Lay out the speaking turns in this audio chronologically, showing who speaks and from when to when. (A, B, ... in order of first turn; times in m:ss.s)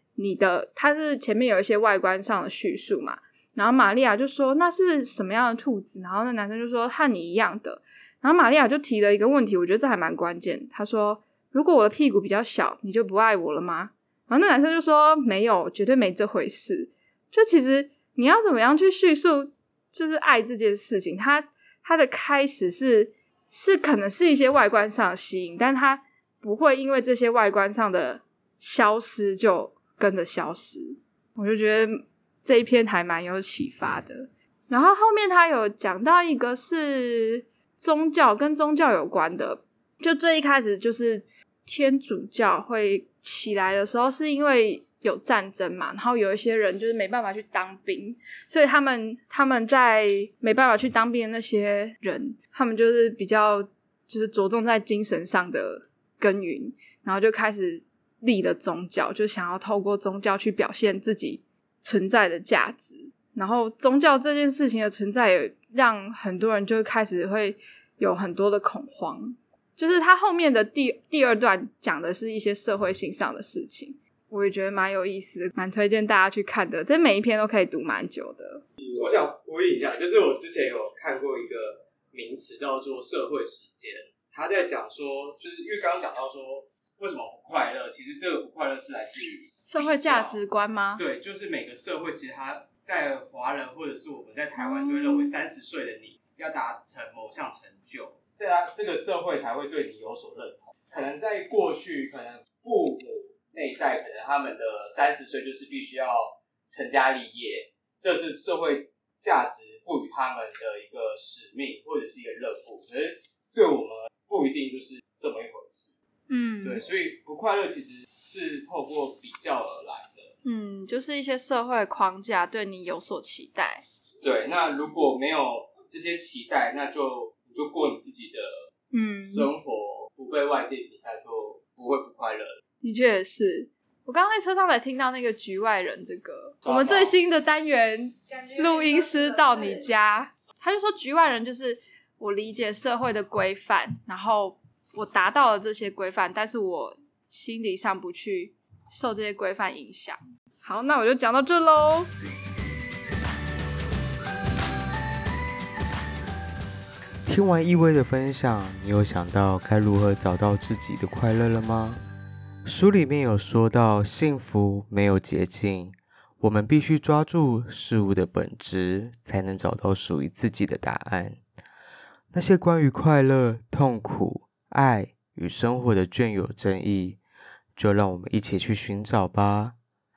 0:00.2-1:18.6 A
1:18.8-1:30.4 B
1:29.6-1:31.0 A
1:31.0-1:55.9 B
1:34.6-1:35.4 A
1:56.3-1:56.8 A
1:56.6-2:00.3 B
2:00.4-2:03.8 A
2:04.2-2:08.5 B
2:08.9-2:09.5 A
2:09.2-2:12.6 B
2:12.8-2:32.1 A
2:16.6-2:17.1 B
2:37.2-2:42.0 C
2:42.6-2:51.4 C
2:52.3-2:57.2 C
2:57.7-2:59.8 C